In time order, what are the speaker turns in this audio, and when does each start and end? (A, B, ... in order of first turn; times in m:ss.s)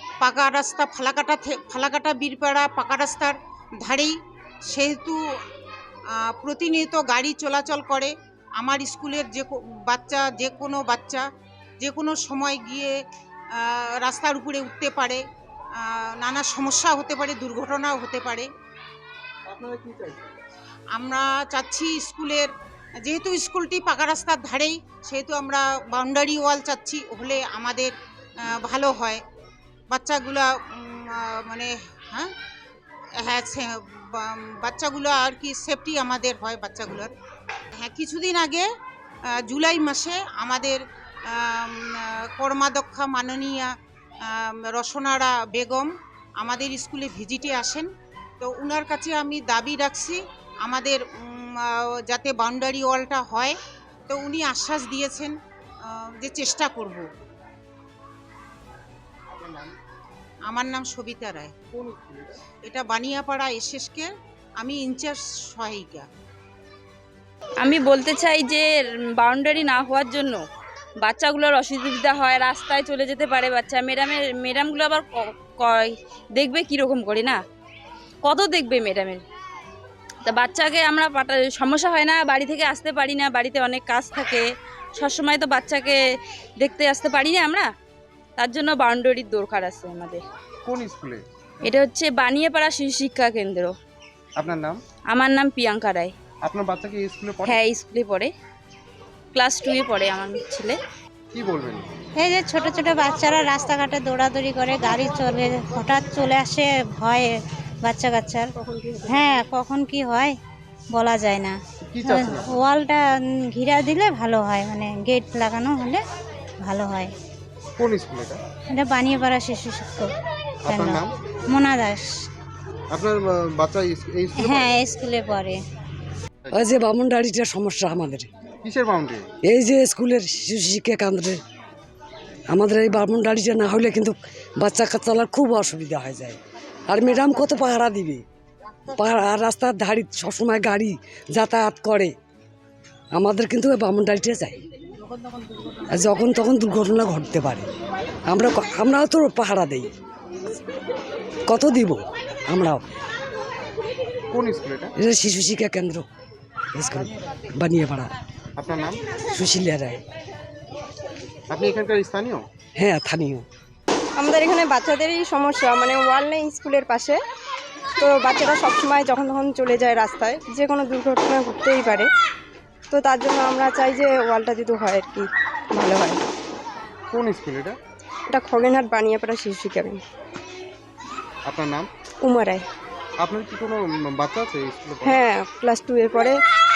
0:00.2-0:04.1 A
0:04.7-0:05.2 A
0:06.2-0:11.2 A
0:11.8-0:13.0 A
0:13.6-0:15.2 A
0:15.8-0:18.5 A
0:19.5-0:20.3 B
0:20.9-0:22.5 A
0:23.0-0:29.2 A
0:29.9-0:32.3 A
0:33.2-0:37.1 A
0:37.8-0:38.7 A
0:39.3-0:43.7 A
0:44.3-0:47.9 A
0:48.4-0:53.6 A
0:54.1-0:55.3 A
0:55.9-0:57.0 A
0:59.3-0:59.7 B
1:00.5-1:01.5 A
1:01.7-1:02.4 B
1:02.6-1:06.0 A
1:07.6-1:08.6 C
1:09.2-1:10.4 C
1:11.0-1:17.4 C
1:18.2-1:19.2 C
1:20.3-1:24.4 C
1:25.0-1:26.0 C
1:26.6-1:27.7 C
1:28.4-1:30.2 C
1:30.6-1:31.2 B
1:31.6-1:33.7 C
1:34.4-1:34.8 B
1:35.1-1:36.1 C
1:36.4-1:37.6 B
1:37.4-1:38.3 C
1:39.3-1:40.8 C
1:41.3-1:41.9 B
1:42.2-1:48.5 D
1:48.6-1:49.3 E
1:49.1-1:50.4 D
1:50.9-1:56.0 D
1:51.9-1:52.5 B
1:56.6-1:57.1 D
1:57.8-1:58.4 B
1:58.7-2:00.1 D
2:00.6-2:01.1 B
2:00.7-2:02.0 D
2:02.9-2:04.7 B
2:04.4-2:05.6 D
2:06.5-2:08.3 F
2:08.6-2:09.2 B
2:09.5-2:11.4 F
2:12.5-2:16.4 F
2:16.9-2:18.2 F
2:19.0-2:22.1 F
2:23.1-2:24.6 F
2:25.9-2:27.7 F
2:28.3-2:29.9 F
2:31.5-2:32.0 F
2:32.5-2:32.8 F
2:34.3-2:34.9 B
2:35.0-2:36.0 F
2:36.7-2:38.1 F
2:38.6-2:39.0 B
2:39.3-2:40.0 F
2:41.5-2:42.4 B
2:42.8-2:43.4 F
2:44.2-2:47.2 E
2:48.0-2:52.1 E
2:52.9-2:56.2 E
2:57.1-2:57.8 B
2:58.3-3:00.0 E
3:01.4-3:01.9 B
3:02.2-3:02.6 E
3:03.2-3:05.2 B
3:05.0-3:06.4 E